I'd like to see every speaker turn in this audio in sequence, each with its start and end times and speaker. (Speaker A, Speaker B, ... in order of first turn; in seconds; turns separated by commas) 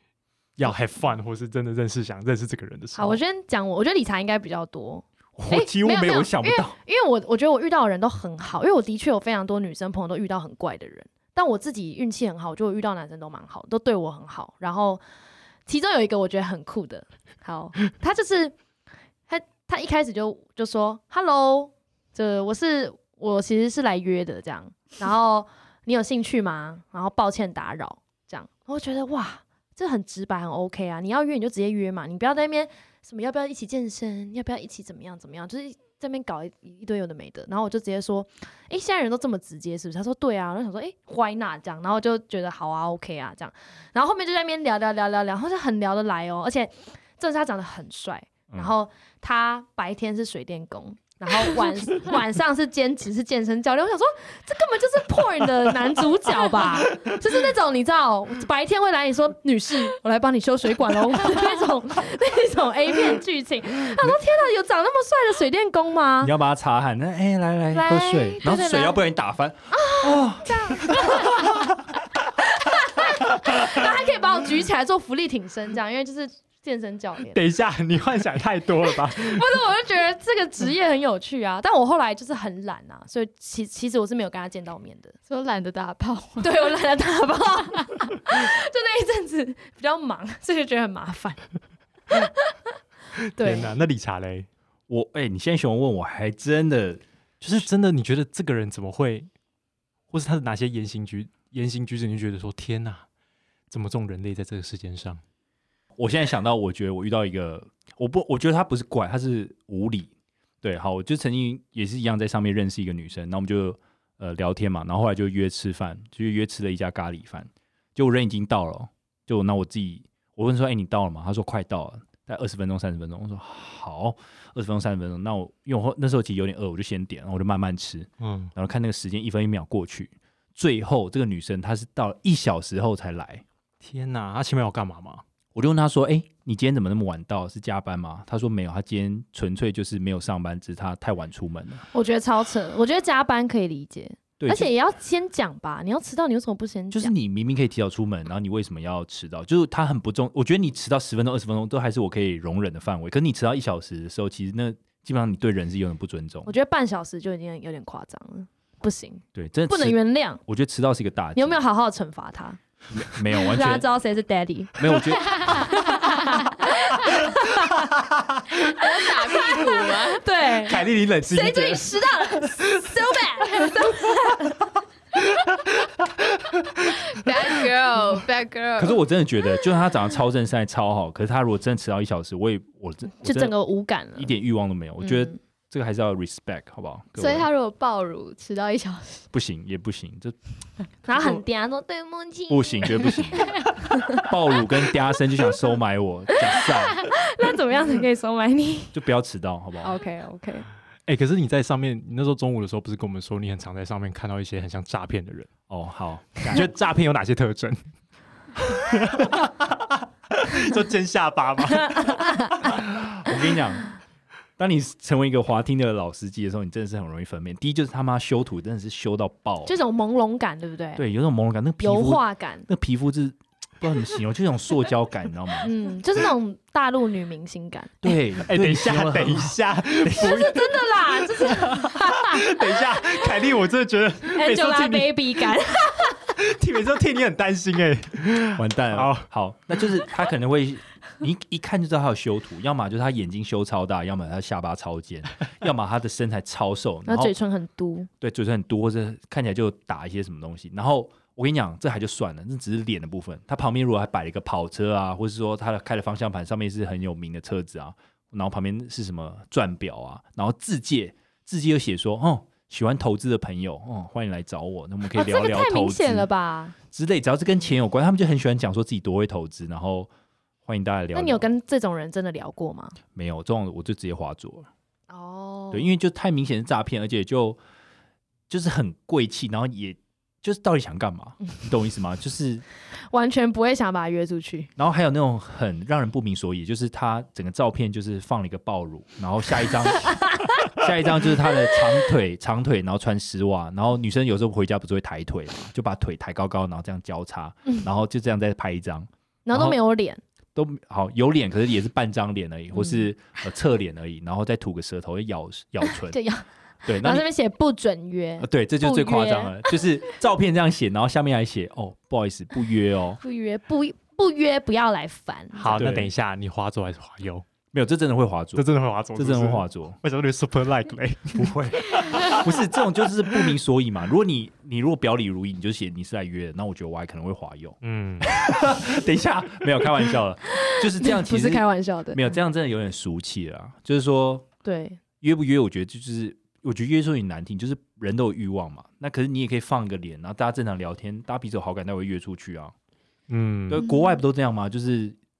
Speaker A: 0.6-3.2, Speaker B: 3.0-15.0, Speaker C: 5.3-6.8, Speaker B: 15.7-18.6, Speaker B: 19.3-66.3, Speaker C: 66.2-71.7, Speaker B: 67.7-69.0, Speaker B: 69.7-71.5, Speaker B: 72.6-77.4, Speaker A: 77.3-79.5, Speaker B: 79.0-85.2, Speaker D: 85.3-86.7, Speaker B: 86.4-91.4, Speaker B: 93.3-93.7, Speaker A: 93.4-94.5, Speaker C: 94.9-97.0, Speaker A: 97.4-99.3, Speaker A: 100.1-103.0, Speaker A: 103.7-105.2, Speaker C: 106.0-110.1, Speaker C: 110.6-133.4, Speaker A: 128.2-128.5, Speaker A: 133.8-135.2, Speaker C: 135.5-141.8, Speaker B: 141.9-147.1, Speaker C: 144.4-144.7, Speaker C: 146.9-156.5, Speaker B: 156.4-160.4, Speaker C: 159.3-161.6, Speaker B: 161.3-162.6, Speaker C: 162.9-163.8, Speaker B: 163.3-167.9, Speaker C: 164.8-165.5, Speaker B: 168.6-174.6, Speaker D: 168.7-170.2, Speaker A: 170.6-172.9, Speaker D: 177.1-179.0, Speaker C: 178.8-183.5, Speaker B: 183.2-184.3, Speaker C: 184.1-187.5, Speaker B: 185.0-185.3, Speaker D: 187.2-189.3, Speaker C: 189.3-190.4, Speaker B: 191.0-194.2, Speaker C: 192.5-197.0, Speaker B: 196.6-198.9, Speaker C: 198.9-199.9, Speaker B: 199.8-200.7, Speaker A: 201.1-205.5, Speaker C: 205.7-206.7, Speaker A: 206.5-207.8, Speaker A: 208.6-212.5, Speaker B: 211.9-212.6, Speaker C: 212.7-213.9, Speaker C: 214.6-219.7, Speaker B: 219.7-221.0, Speaker C: 221.0-225.7, Speaker B: 221.8-222.7, Speaker B: 225.6-228.1, Speaker C: 228.0-230.4, Speaker A: 228.4-235.5, Speaker B: 230.1-232.5, Speaker B: 234.3-236.1, Speaker A: 236.3-239.2, Speaker C: 238.6-247.3, Speaker B: 247.1-248.1, Speaker C: 248.2-266.3, Speaker B: 265.1-266.7, Speaker C: 266.9-270.1, Speaker C: 270.6-271.5, Speaker B: 271.1-273.0, Speaker C: 273.1-274.7, Speaker B: 275.1-275.9, Speaker C: 275.7-277.6, Speaker C: 278.5-282.6, Speaker B: 283.1-284.7, Speaker C: 284.8-299.8, Speaker B: 299.4-300.2, Speaker C: 300.5-306.2, Speaker B: 302.7-303.0, Speaker B: 306.0-309.7, Speaker C: 306.8-307.3, Speaker C: 308.4-313.2, Speaker B: 313.2-315.9, Speaker A: 315.5-317.4, Speaker C: 315.7-316.1, Speaker C: 317.7-320.0, Speaker A: 318.5-322.6, Speaker C: 321.4-334.5, Speaker A: 327.8-328.3, Speaker B: 330.6-332.3, Speaker B: 334.6-335.0, Speaker C: 335.2-342.7, Speaker A: 343.3-343.8, Speaker C: 343.7-345.2